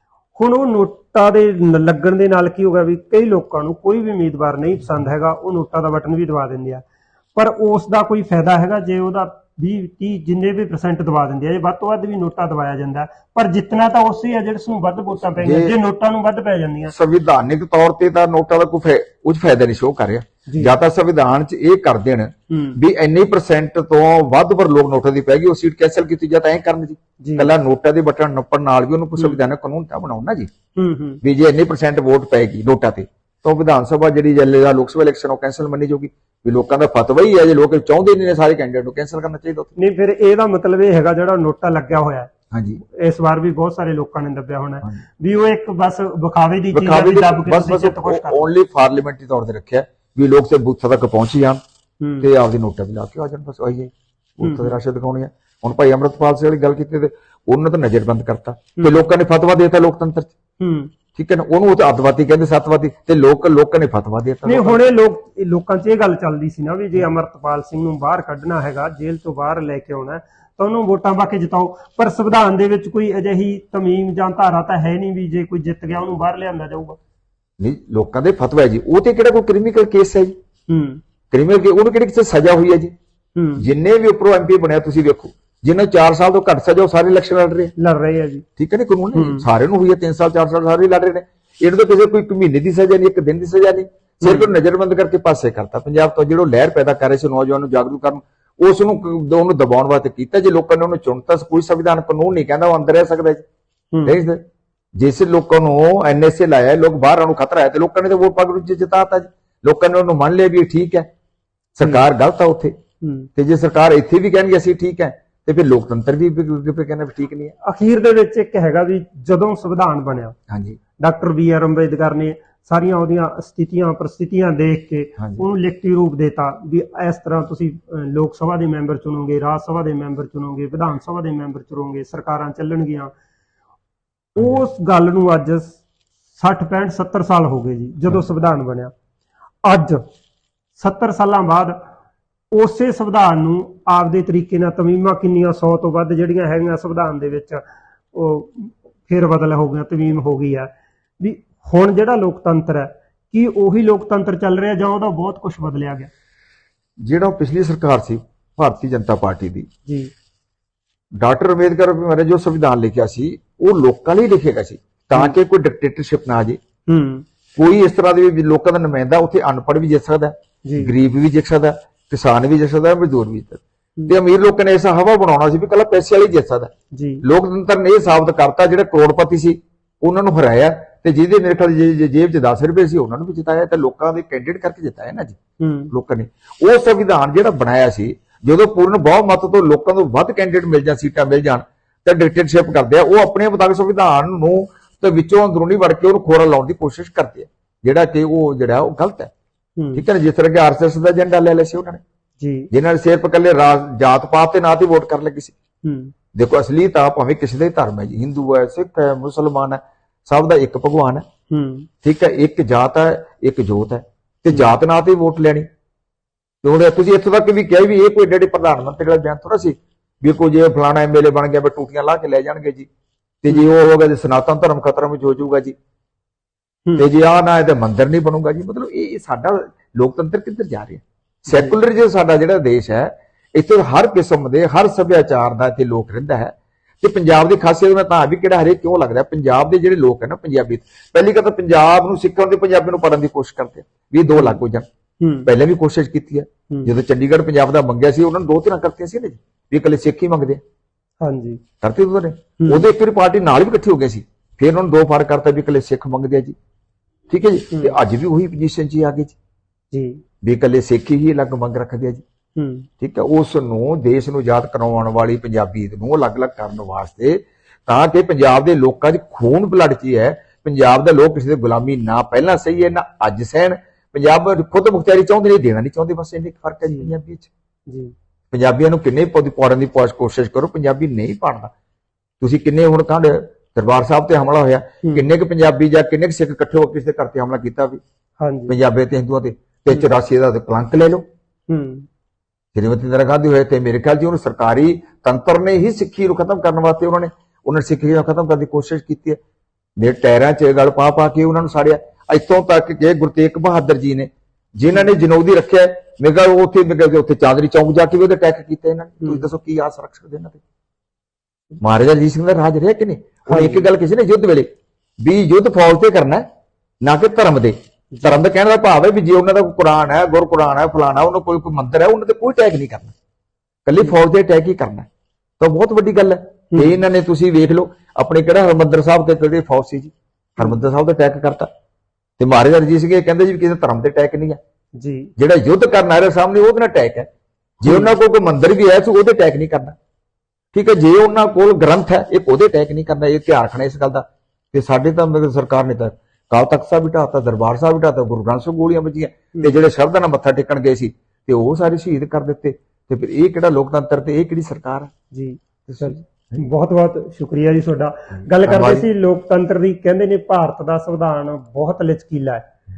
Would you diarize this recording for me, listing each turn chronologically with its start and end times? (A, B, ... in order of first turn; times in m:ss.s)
0:00.4-0:16.9 A
0:15.4-0:15.8 B
0:16.9-0:30.5 B
0:20.5-0:20.7 A
0:22.5-0:22.8 A
0:27.2-0:27.5 A
0:30.7-0:31.2 A
0:31.2-0:39.7 B
0:39.8-0:42.3 A
0:42.5-0:42.8 B
0:42.8-0:48.4 A
0:46.7-0:51.6 B
0:52.0-0:52.2 A
0:52.2-1:00.3 B
0:54.4-0:54.8 A
0:58.8-0:59.0 A
1:00.6-1:00.9 A
1:01.2-1:04.8 B
1:04.4-1:17.0 A
1:17.6-1:20.3 B
1:20.7-1:21.0 A
1:21.3-1:22.9 B
1:23.3-1:23.6 A
1:23.6-1:27.7 B
1:27.8-1:28.4 A
1:28.6-1:43.4 B
1:29.1-1:29.4 A
1:34.2-1:34.5 A
1:43.9-1:44.2 A
1:44.0-1:44.4 B
1:44.9-1:51.1 B
1:51.8-1:52.7 B
1:53.0-1:53.3 A
1:53.3-1:57.5 B
1:57.6-2:00.4 A
2:00.5-2:00.8 B
2:01.0-2:13.1 A
2:05.2-2:05.4 B
2:14.3-2:15.8 A
2:16.4-2:18.9 A
2:19.6-2:20.0 A
2:20.8-2:21.8 A
2:22.5-2:27.6 A
2:28.1-2:36.1 A
2:37.0-2:39.7 B
2:39.8-2:40.1 A
2:41.2-2:46.6 B
2:46.9-2:47.2 A
2:47.6-2:56.7 B
2:50.6-2:50.9 A
2:56.9-2:57.2 A
2:57.2-3:05.4 B
3:05.6-3:05.9 A
3:05.9-3:19.3 B
3:19.8-3:20.0 A
3:19.9-3:22.0 B
3:22.4-3:22.7 A
3:22.7-3:25.6 B
3:25.8-3:26.1 A
3:26.3-3:31.2 B
3:31.5-3:31.9 A
3:32.0-3:35.6 B
3:36.6-3:42.9 B
3:43.4-3:45.7 B
3:47.0-4:04.8 B
3:51.5-3:51.8 A
4:04.3-4:04.6 A
4:05.2-4:05.5 A
4:05.4-4:10.6 B
4:11.2-4:11.6 A
4:11.8-4:16.6 B
4:12.6-4:12.8 A
4:17.3-4:19.3 B
4:17.7-4:18.0 A
4:19.9-4:20.2 A
4:20.4-4:22.2 B
4:22.6-4:22.9 A
4:23.0-4:37.5 B
4:36.8-4:37.1 A
4:37.9-4:38.1 A
4:38.5-4:41.7 B
4:42.4-4:48.0 B
4:48.4-4:48.8 A
4:48.7-4:51.2 B
4:51.7-4:52.0 A
4:52.7-4:59.4 B
5:00.0-5:10.6 B
5:09.2-5:09.5 A
5:11.8-5:14.7 B
5:13.5-5:13.9 A
5:15.2-5:16.4 B
5:17.0-5:23.1 B
5:18.1-5:18.4 A
5:23.8-5:25.1 B
5:25.6-5:31.7 B
5:26.7-5:27.0 A
5:32.4-5:34.6 B
5:35.0-5:35.3 A
5:35.4-5:37.3 B
5:37.8-5:39.9 B
5:37.8-5:38.1 A
5:40.7-5:55.1 B
5:55.3-6:02.7 A
5:55.8-5:56.6 B
5:58.6-5:59.1 B